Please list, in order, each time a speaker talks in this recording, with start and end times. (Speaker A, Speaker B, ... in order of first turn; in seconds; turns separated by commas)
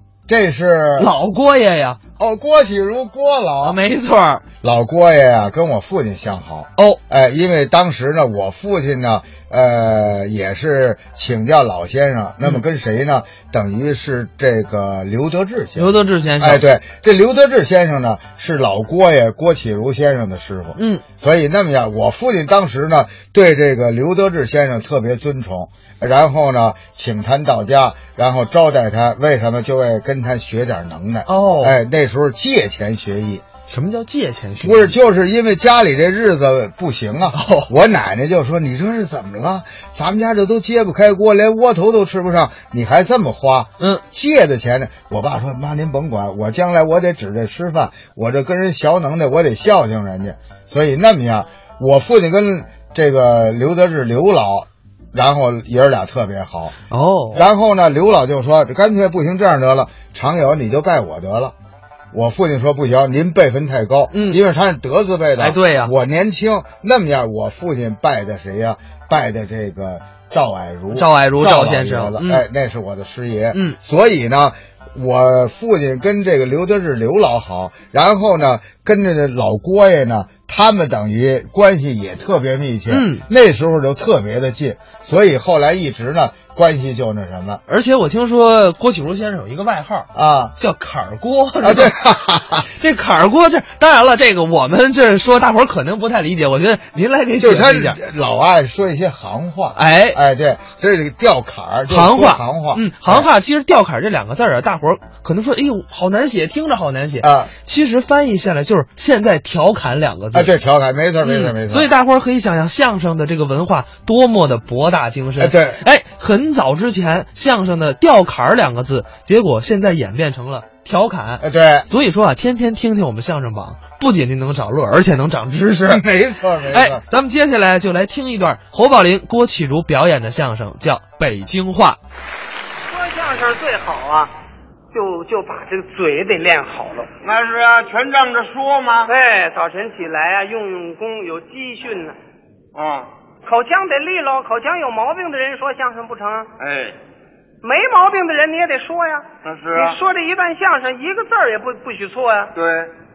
Speaker A: 0.3-1.1, Speaker B: 1.0-2.0, Speaker A: 2.2-3.8, Speaker B: 3.6-4.4, Speaker A: 4.6-33.4, Speaker B: 15.8-16.6, Speaker B: 20.8-21.0, Speaker B: 31.3-31.8, Speaker B: 33.7-35.0, Speaker A: 34.6-56.7, Speaker B: 37.3-37.7, Speaker B: 56.9-57.4, Speaker A: 57.3-61.5, Speaker A: 62.1-87.6, Speaker B: 64.1-64.4, Speaker B: 65.4-65.9, Speaker B: 70.9-72.5, Speaker B: 73.5-73.8, Speaker B: 82.9-83.2, Speaker B: 87.7-91.9, Speaker A: 90.1-90.5, Speaker A: 91.6-92.7, Speaker B: 92.8-98.0, Speaker A: 97.4-103.3, Speaker B: 99.8-100.2, Speaker B: 101.9-110.5, Speaker A: 107.2-107.5, Speaker A: 110.3-111.9, Speaker B: 111.2-126.0, Speaker A: 115.4-115.8, Speaker A: 121.4-121.9, Speaker A: 125.9-127.0, Speaker B: 126.7-132.0, Speaker C: 132.9-134.3, Speaker C: 134.9-137.1, Speaker D: 137.2-139.1, Speaker C: 139.1-142.2, Speaker D: 142.8-143.1, Speaker C: 143.4-146.5, Speaker D: 146.6-147.0, Speaker C: 147.6-152.5, Speaker D: 149.4-150.0, Speaker D: 152.6-152.9